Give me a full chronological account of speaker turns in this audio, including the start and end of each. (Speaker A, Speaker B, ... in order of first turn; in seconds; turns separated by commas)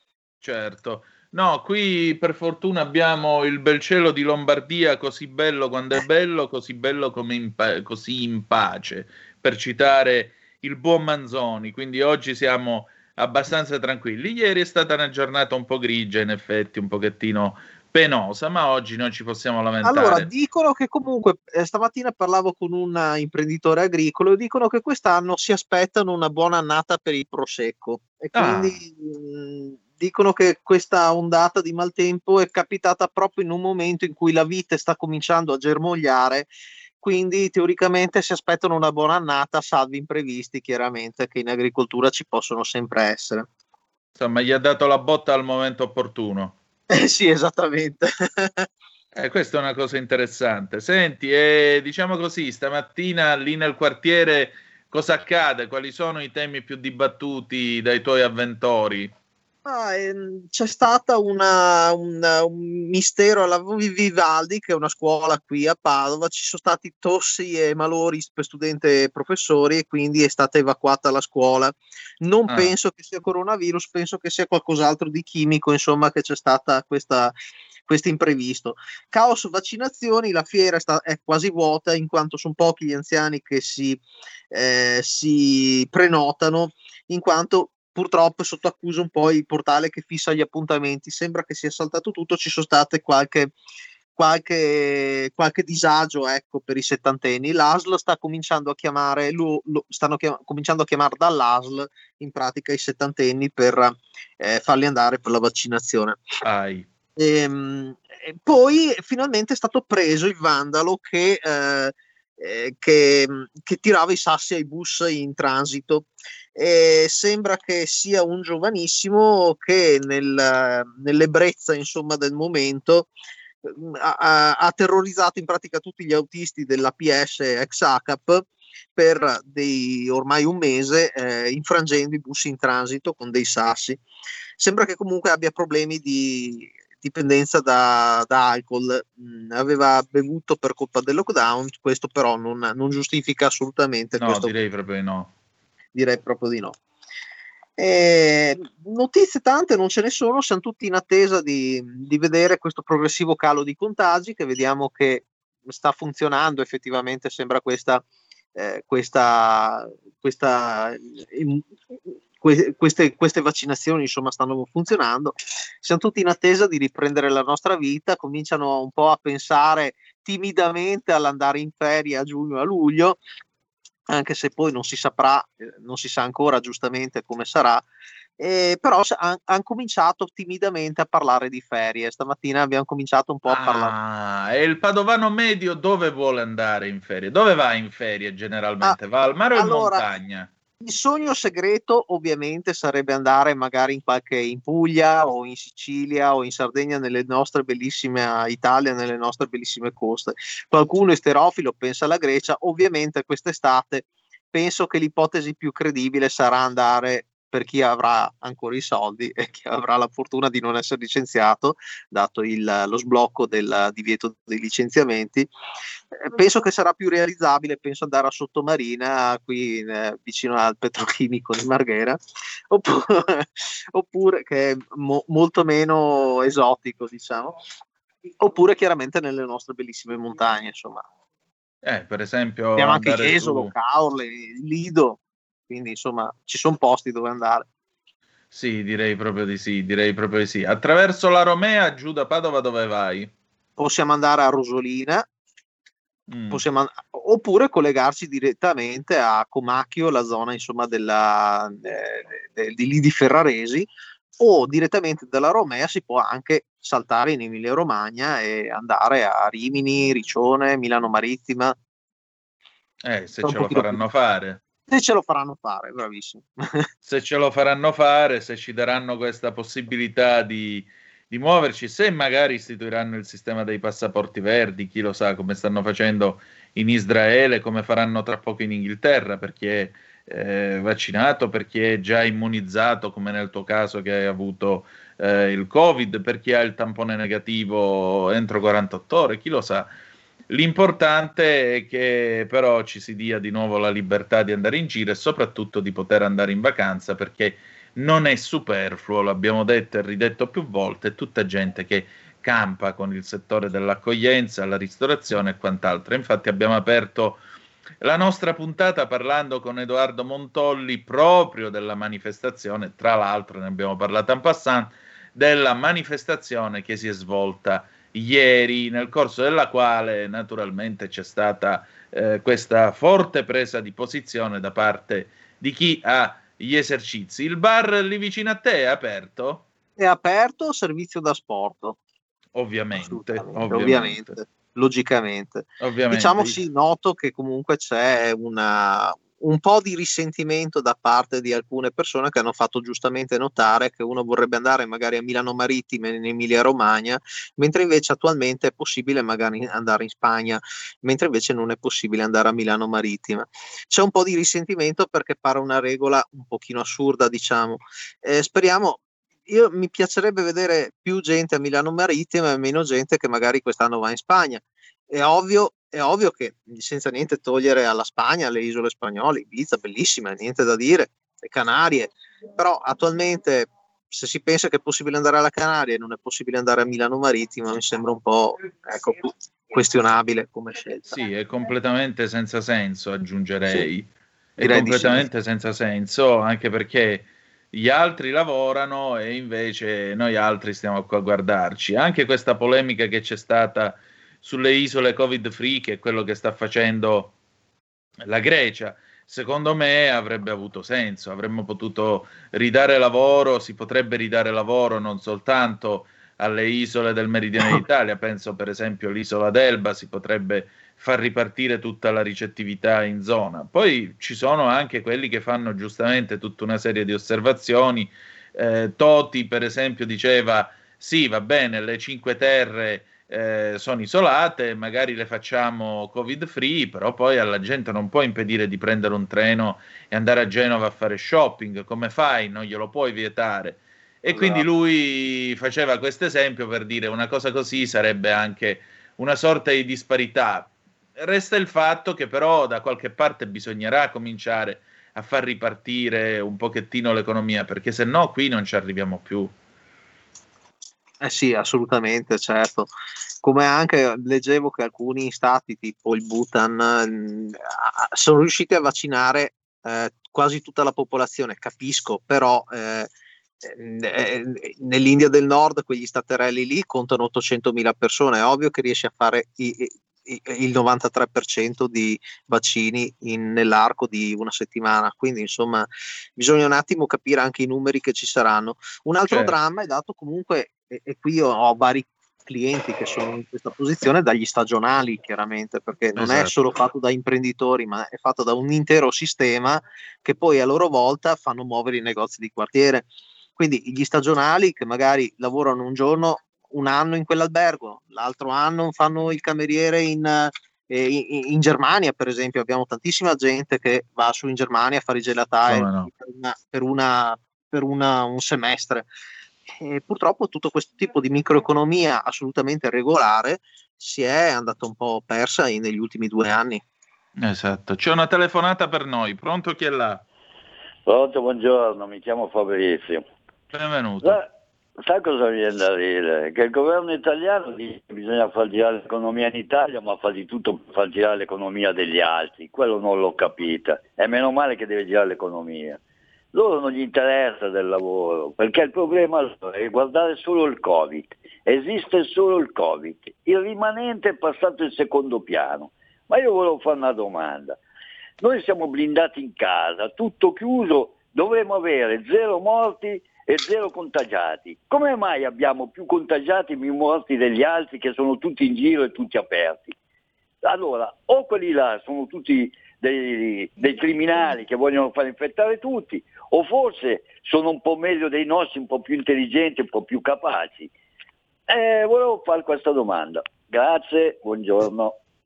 Speaker A: 0.4-20.3, Speaker B: 19.8-36.5, Speaker A: 28.3-28.8, Speaker B: 37.0-43.5, Speaker A: 44.1-46.6, Speaker B: 46.9-48.7, Speaker A: 49.1-59.1, Speaker B: 59.6-77.3, Speaker A: 72.5-72.7, Speaker B: 77.9-93.5, Speaker B: 94.2-106.2, Speaker A: 106.4-106.9, Speaker B: 107.2-123.1, Speaker B: 123.6-128.4, Speaker B: 129.0-134.0, Speaker B: 134.6-144.5, Speaker A: 144.2-145.3, Speaker B: 145.9-146.8, Speaker B: 147.8-158.1, Speaker B: 158.6-173.2, Speaker B: 174.1-177.8, Speaker B: 178.4-183.9, Speaker A: 183.5-190.5, Speaker B: 189.5-190.1, Speaker B: 190.8-215.5, Speaker B: 216.1-227.6, Speaker B: 228.4-231.1, Speaker A: 231.8-233.7, Speaker B: 232.8-237.7, Speaker A: 238.5-243.3, Speaker B: 243.8-245.2, Speaker A: 246.3-246.6, Speaker B: 246.5-261.8, Speaker A: 263.0-264.6, Speaker B: 263.4-264.0, Speaker B: 264.9-266.9, Speaker A: 267.1-289.9, Speaker A: 290.5-307.4, Speaker A: 308.0-329.7, Speaker B: 330.0-332.0, Speaker A: 332.6-334.4, Speaker B: 332.9-381.2, Speaker A: 335.8-336.6, Speaker A: 381.1-397.3, Speaker B: 384.6-385.3, Speaker A: 398.2-449.5, Speaker B: 434.3-434.7, Speaker B: 451.2-452.9, Speaker B: 453.4-463.1, Speaker B: 463.6-509.1, Speaker A: 479.3-479.6, Speaker A: 486.2-486.6, Speaker A: 505.7-506.1, Speaker B: 509.8-516.8, Speaker A: 517.4-520.2, Speaker C: 521.1-523.2, Speaker A: 523.7-524.4, Speaker C: 525.0-536.0, Speaker C: 536.5-547.8, Speaker C: 548.4-560.0, Speaker C: 560.6-570.9, Speaker C: 571.7-575.2